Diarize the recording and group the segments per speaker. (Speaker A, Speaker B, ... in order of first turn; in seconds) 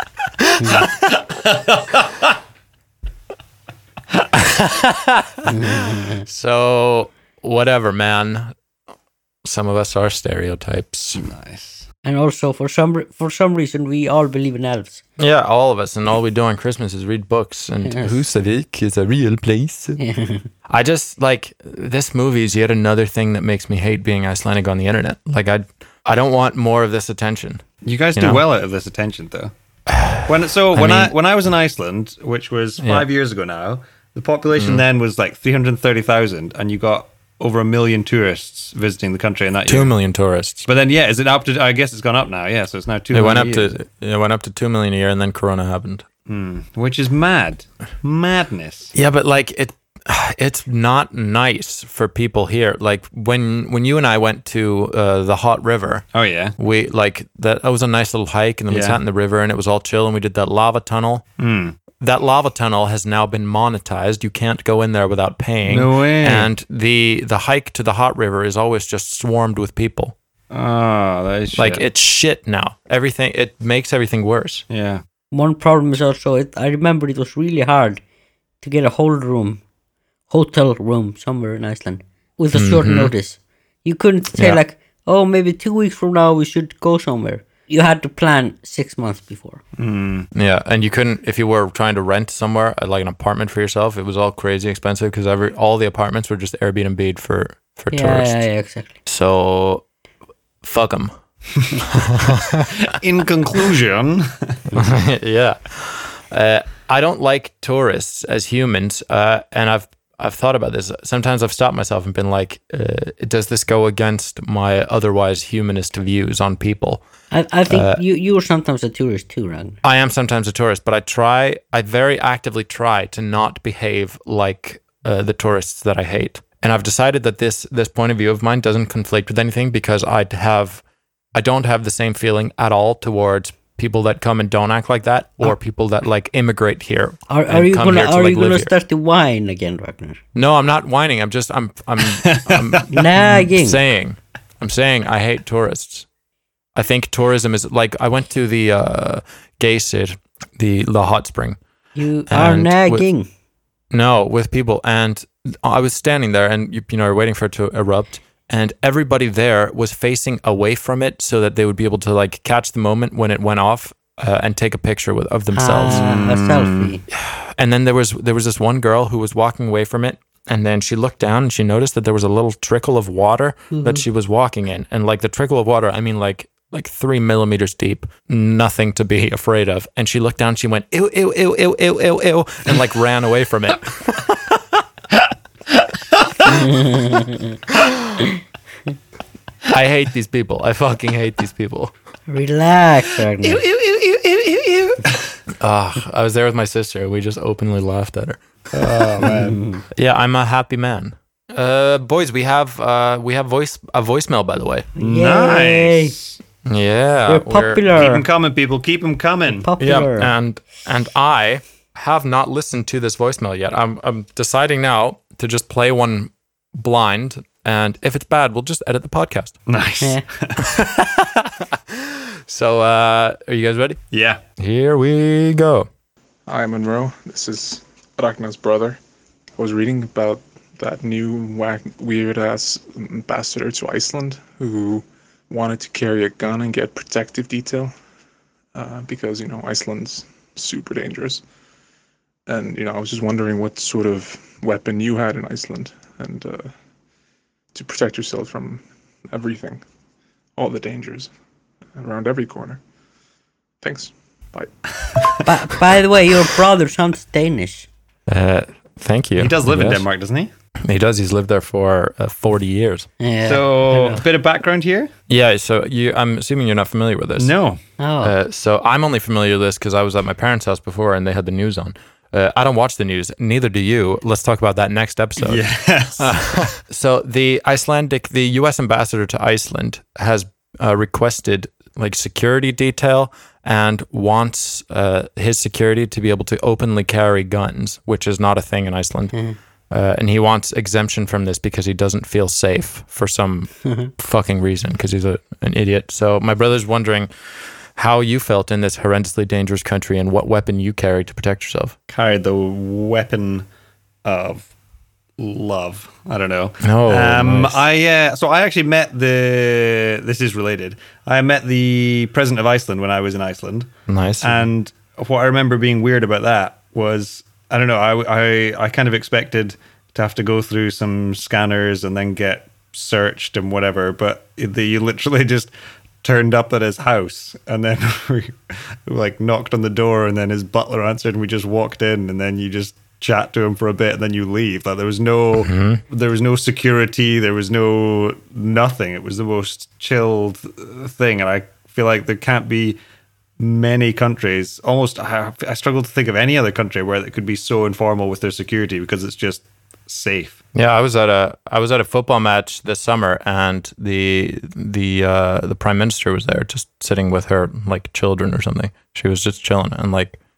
Speaker A: 0.6-0.8, 5.5-6.2, 12.1-15.0, 17.9-18.2, 20.0-20.5, 75.3-78.0, 78.6-79.6, 80.3-89.6, 97.9-99.0, 117.3-119.8, 137.3-140.2, 142.9-143.8, 152.0-153.3, 165.5-167.0, 173.7-174.0, 186.4-187.6, 192.3-193.6, 199.3-199.8, 205.0-206.2, 207.3-208.3, 209.5-210.3, 255.4-257.9, 263.2-264.2, 268.0-268.4
Speaker B: 0.7-2.4, 11.2-11.9, 27.8-29.5, 30.2-39.9, 40.7-43.8, 46.3-48.9, 56.1-56.6, 58.7-59.0, 61.4-61.8, 65.7-66.5, 70.5-71.8, 74.7-75.0, 89.8-90.3, 102.7-104.7, 142.1-143.0, 165.9-166.9, 185.8-186.5, 193.4-195.4, 198.7-199.6, 205.0-206.4, 207.9-209.7, 219.7-220.7, 224.1-224.4, 255.1-255.4, 259.4-260.5, 263.4-265.1, 267.4-267.8, 275.4-276.6, 302.1-303.6, 304.2-304.7, 305.4-325.7, 326.2-343.0, 343.6-350.6
Speaker C: 4.3-8.5, 9.4-11.2, 15.2-20.0, 20.7-27.6, 28.2-28.4, 29.9-31.1, 32.8-33.1, 34.5-34.8, 39.7-40.7, 43.1-46.0, 48.9-56.0, 56.6-61.2, 62.0-70.2, 71.5-74.7, 82.5-83.1, 90.3-98.4, 99.1-99.8, 100.6-101.1, 101.9-102.7, 104.7-117.0, 117.7-118.0, 119.8-130.8, 131.3-138.7, 140.3-146.1, 146.8-151.6, 152.3-153.1, 153.9-166.1, 167.2-184.8, 189.7-191.9, 195.6-198.4, 199.9-204.9, 206.7-207.8, 209.8-219.6, 220.6-224.0, 224.6-225.9, 258.3-260.1, 260.9-263.1, 265.3-267.5, 268.2-275.6, 276.2-289.3, 289.9-297.3, 298.0-301.9, 306.8-307.8, 314.1-314.7, 335.6-336.0, 350.8-360.4
Speaker D: 226.5-229.0, 229.6-237.9, 238.8-241.4, 242.5-246.7, 247.7-249.8, 250.6-251.3, 252.0-252.8, 253.8-255.4